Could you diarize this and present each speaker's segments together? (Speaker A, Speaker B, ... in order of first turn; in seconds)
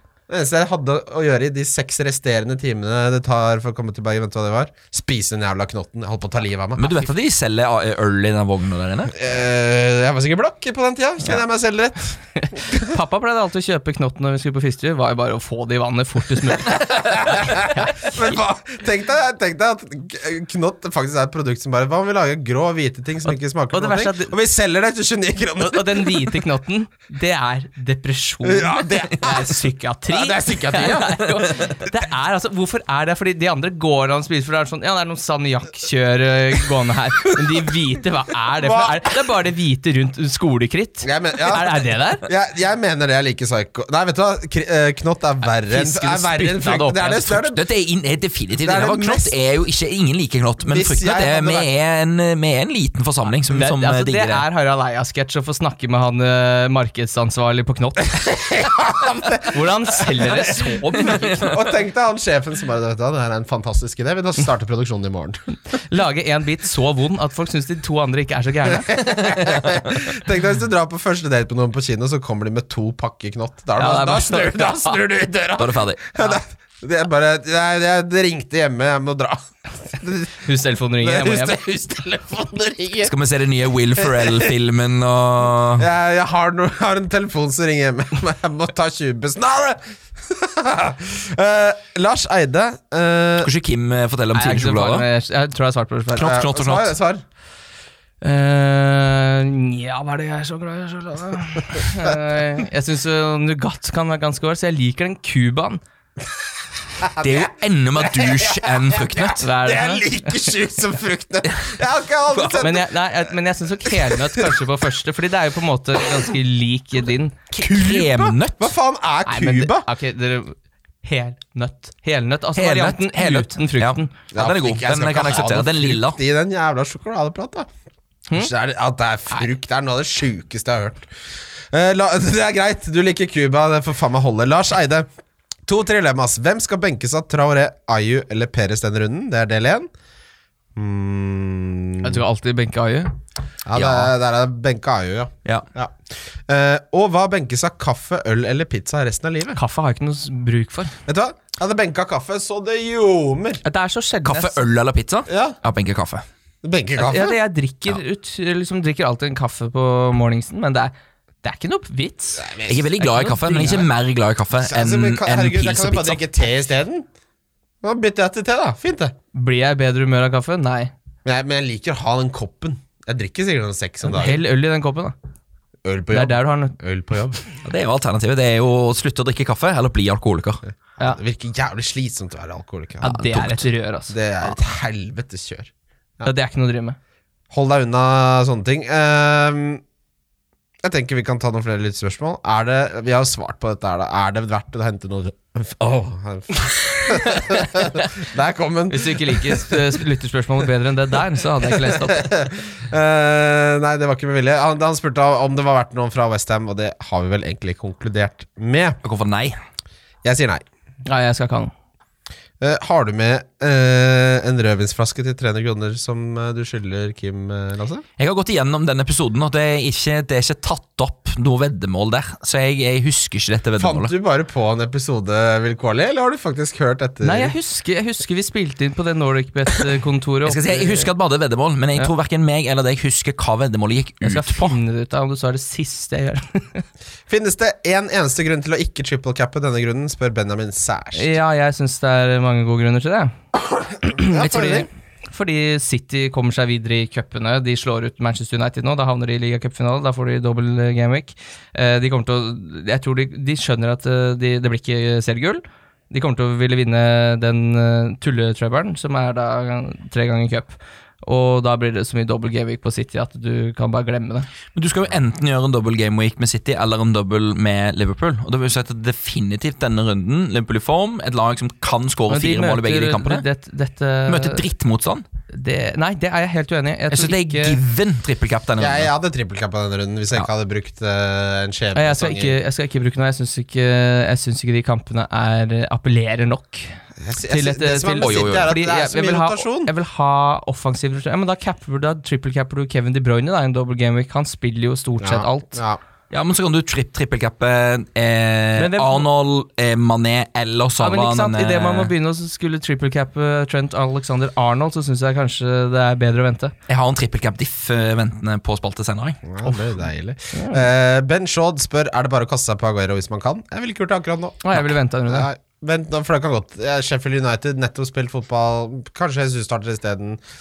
Speaker A: 0.3-7.0, 9.1-12.9, 16.7-26.4, 28.4-29.6, 30.1-31.2, 38.6-39.3, 41.0-47.6, 48.6-49.3, 50.7-51.7, 58.1-65.4, 68.8-80.4, 81.0-83.1, 84.0-84.5, 85.8-93.5, 96.2-97.2, 107.0-112.9, 113.8-114.6, 117.6-119.9, 124.3-127.7, 128.3-131.1, 131.7-135.1, 135.7-139.9, 140.8-142.2, 143.7-146.0, 146.5-149.6, 151.1-153.6, 155.3-155.6, 156.6-157.4, 162.4-162.9, 164.6-167.1, 167.8-169.1, 171.2-174.4, 175.8-177.4, 180.9-183.6, 184.1-186.3, 187.5-189.8, 190.8-199.8, 201.7-209.0, 210.2-210.6, 212.6-218.0, 223.8-227.6, 237.3-241.3, 244.1-244.9, 278.8-282.6, 287.2-289.9, 295.2-296.0, 309.5-314.8, 315.3-320.4
Speaker B: 6.8-9.1, 47.4-54.5, 75.6-76.2, 83.0-85.9, 93.4-95.1, 96.2-96.9, 107.2-109.4, 112.3-112.6, 117.5-118.7, 122.6-126.2, 143.7-144.1, 154.2-156.2, 162.7-166.2, 177.6-180.6, 209.0-209.6, 218.2-224.1, 230.4-234.8, 264.8-273.4, 274.3-275.2, 277.1-279.1, 288.2-288.7, 296.3-302.1, 306.9-309.5
Speaker C: 12.4-18.4, 23.2-24.4, 25.6-42.2, 45.5-47.4, 53.3-58.1, 59.5-61.5, 65.9-69.4, 73.8-75.0, 80.4-81.6, 94.3-96.3, 98.2-105.8, 109.4-110.5, 112.6-117.4, 119.3-124.1, 142.0-143.1, 149.6-150.9, 153.6-154.6, 157.0-162.5, 163.0-163.9, 169.3-170.9, 174.0-175.2, 176.1-176.8, 183.0-184.2, 186.2-187.0, 197.1-197.9, 198.9-202.3, 211.1-211.7, 227.2-231.1, 234.2-236.8, 241.1-243.3, 244.0-264.5, 272.3-274.6, 275.5-277.8, 281.9-287.0, 287.5-295.8, 298.8-299.3, 301.0-306.7, 310.5-310.9, 314.6-315.5